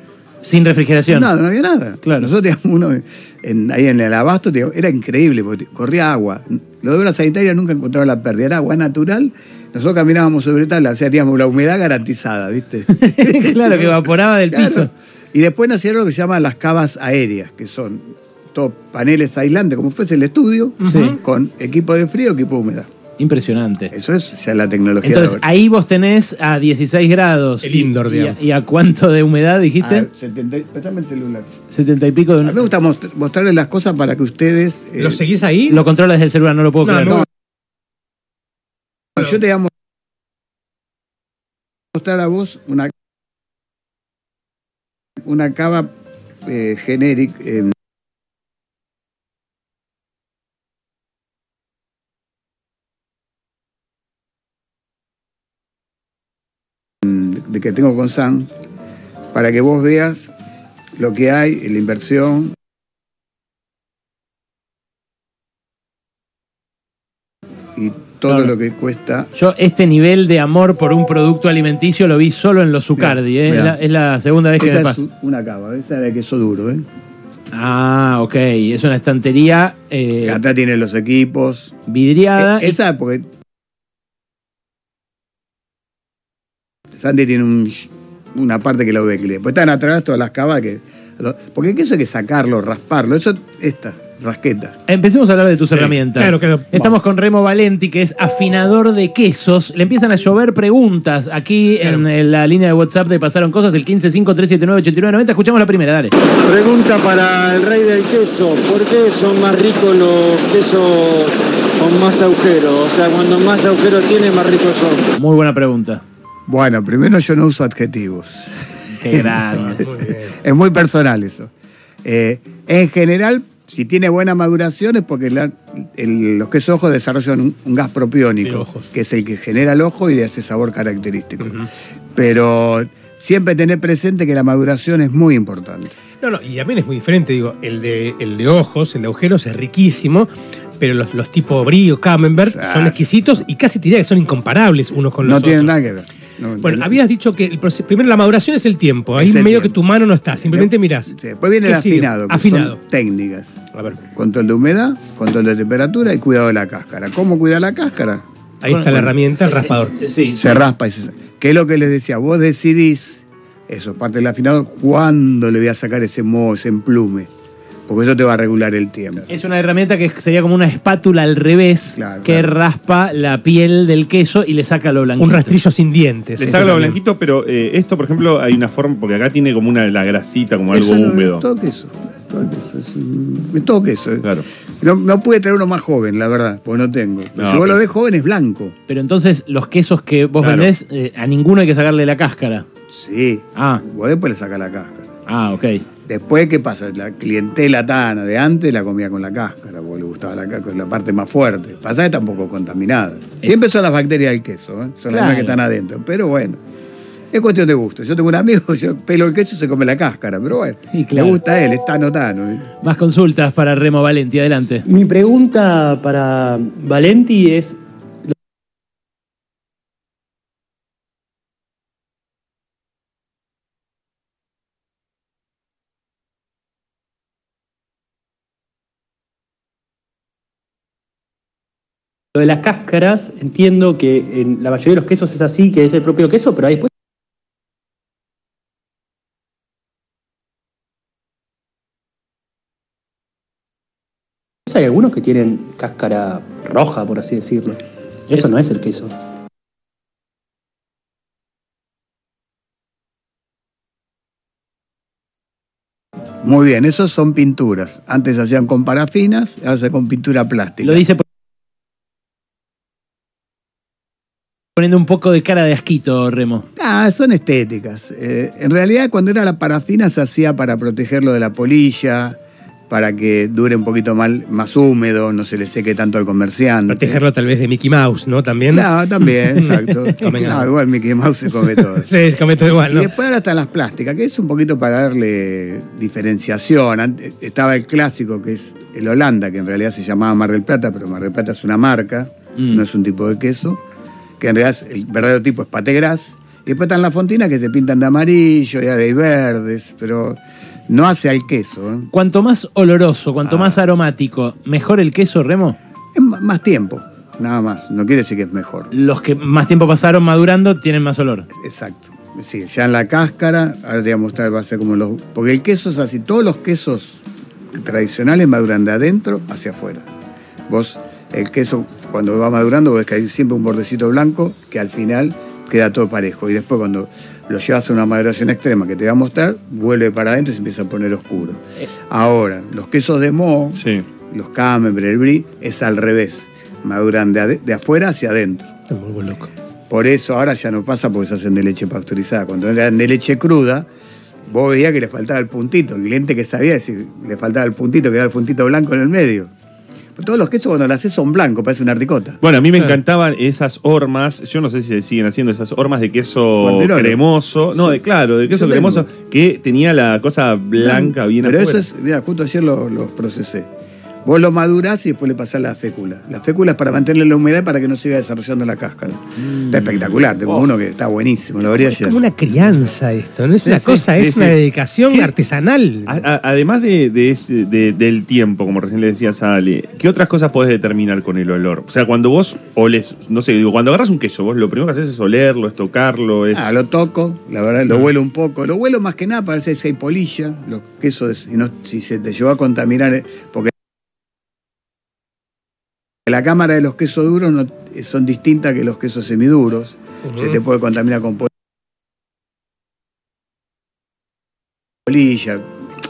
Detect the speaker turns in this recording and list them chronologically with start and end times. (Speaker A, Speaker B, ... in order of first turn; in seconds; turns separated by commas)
Speaker A: 0.4-1.3, Speaker B: 1.1-22.9, Speaker A: 2.0-2.3, Speaker A: 12.9-14.9, Speaker C: 20.8-21.2, Speaker A: 20.9-21.2, Speaker A: 23.2-23.9, Speaker B: 23.9-25.4, Speaker A: 25.0-30.1, Speaker C: 27.6-28.4, Speaker B: 29.8-31.5, Speaker A: 31.7-32.6, Speaker B: 32.4-35.2, Speaker C: 35.0-35.8, Speaker A: 35.7-37.2, Speaker C: 36.9-37.2, Speaker B: 39.2-39.7, Speaker B: 41.9-42.9, Speaker B: 45.2-45.9, Speaker B: 46.5-47.8, Speaker B: 57.0-58.5, Speaker B: 59.3-60.3, Speaker B: 61.0-62.6, Speaker B: 67.8-69.3, Speaker A: 68.3-68.5, Speaker A: 69.3-75.0, Speaker B: 73.0-73.8, Speaker B: 74.6-76.9, Speaker A: 77.5-80.4, Speaker B: 80.2-81.8, Speaker A: 81.9-82.8, Speaker B: 82.4-83.3, Speaker B: 86.9-94.8, Speaker A: 94.9-106.1, Speaker C: 96.1-97.0, Speaker D: 106.4-115.1, Speaker A: 115.2-116.0, Speaker B: 116.5-121.5, Speaker A: 118.9-119.9, Speaker C: 119.7-120.3, Speaker B: 122.0-131.6, Speaker C: 128.4-128.9, Speaker B: 132.2-135.9, Speaker C: 136.2-145.7, Speaker B: 142.4-143.1, Speaker B: 145.2-147.0, Speaker C: 146.6-151.1, Speaker B: 149.2-149.8, Speaker B: 150.4-158.2, Speaker C: 151.6-152.8, Speaker C: 153.8-154.0, Speaker C: 158.6-160.0, Speaker A: 158.7-160.6, Speaker B: 160.4-167.3, Speaker B: 167.9-169.3, Speaker A: 169.3-175.6, Speaker B: 171.9-172.5, Speaker C: 175.2-177.0, Speaker E: 176.4-181.4, Speaker B: 180.7-184.3, Speaker B: 184.8-188.8, Speaker E: 187.4-187.8, Speaker A: 188.9-192.7, Speaker E: 190.4-190.7, Speaker B: 192.9-195.1, Speaker A: 193.6-193.8, Speaker A: 195.3-195.8, Speaker B: 196.1-206.6, Speaker A: 205.1-205.6, Speaker B: 207.3-212.7, Speaker A: 210.9-211.4, Speaker A: 212.8-214.8, Speaker F: 214.9-218.3, Speaker F: 232.3-236.9, Speaker F: 244.7-249.1, Speaker B: 256.4-261.1, Speaker A: 260.8-261.2, Speaker A: 264.8-266.6, Speaker B: 266.8-272.4, Speaker B: 272.9-277.2, Speaker C: 276.9-280.7, Speaker B: 278.7-282.1, Speaker C: 281.8-283.1, Speaker B: 282.7-293.8, Speaker A: 292.6-292.8, Speaker B: 294.4-302.1, Speaker A: 302.1-305.8, Speaker B: 303.5-303.8, Speaker B: 306.1-308.9, Speaker A: 308.9-311.5, Speaker B: 311.5-317.2, Speaker B: 317.7-320.1, Speaker B: 320.7-338.7, Speaker E: 333.8-334.0, Speaker C: 338.9-339.5, Speaker B: 339.9-343.9, Speaker B: 344.5-349.5, Speaker B: 350.2-352.4, Speaker E: 352.4-361.9, Speaker B: 356.6-357.2, Speaker B: 358.5-359.1, Speaker B: 360.8-363.7, Speaker B: 364.2-372.2, Speaker A: 369.4-369.9, Speaker C: 371.7-376.2, Speaker A: 373.6-374.0, Speaker E: 374.0-374.6, Speaker E: 376.1-386.7, Speaker B: 386.5-393.7, Speaker B: 396.2-401.5, Speaker C: 400.3-400.6, Speaker B: 405.0-405.7